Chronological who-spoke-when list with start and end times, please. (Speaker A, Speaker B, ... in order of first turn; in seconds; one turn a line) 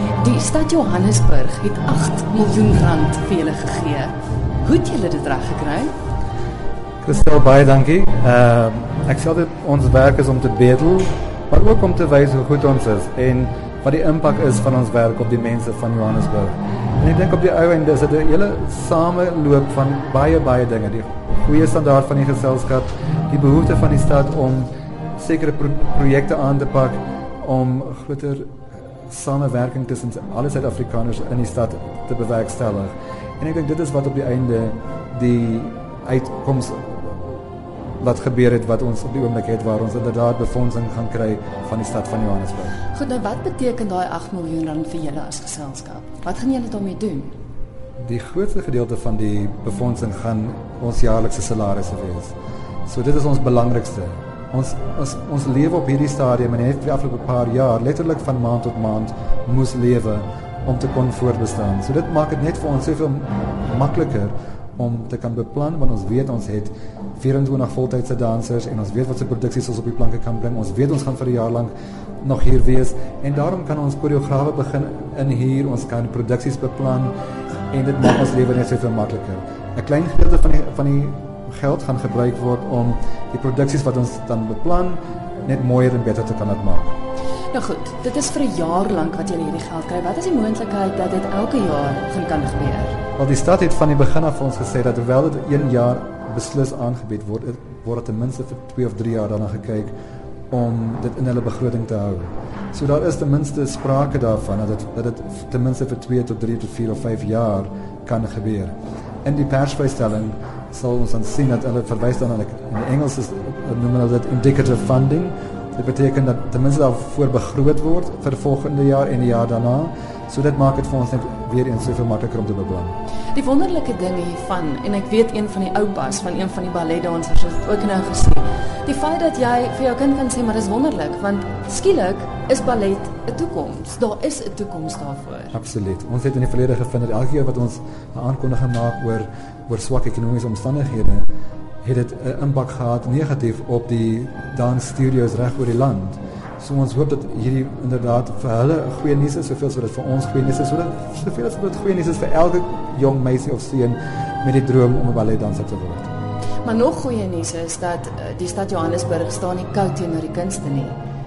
Speaker A: 0.2-5.9
Speaker B: 7.0-28.5
Speaker B: 29.1-37.3
Speaker B: 38.0-42.8
Speaker A: 42.9-47.3
Speaker B: 48.0-52.3
Speaker B: 52.9-77.1
Speaker B: 77.7-86.9
Speaker A: 87.5-93.0
Speaker B: 93.2-99.9
Speaker B: 100.5-108.7
Speaker B: 109.2-122.9
Speaker A: 123.3-135.5
Speaker B: 135.5-141.2
Speaker B: 141.8-156.1
Speaker A: 156.6-160.9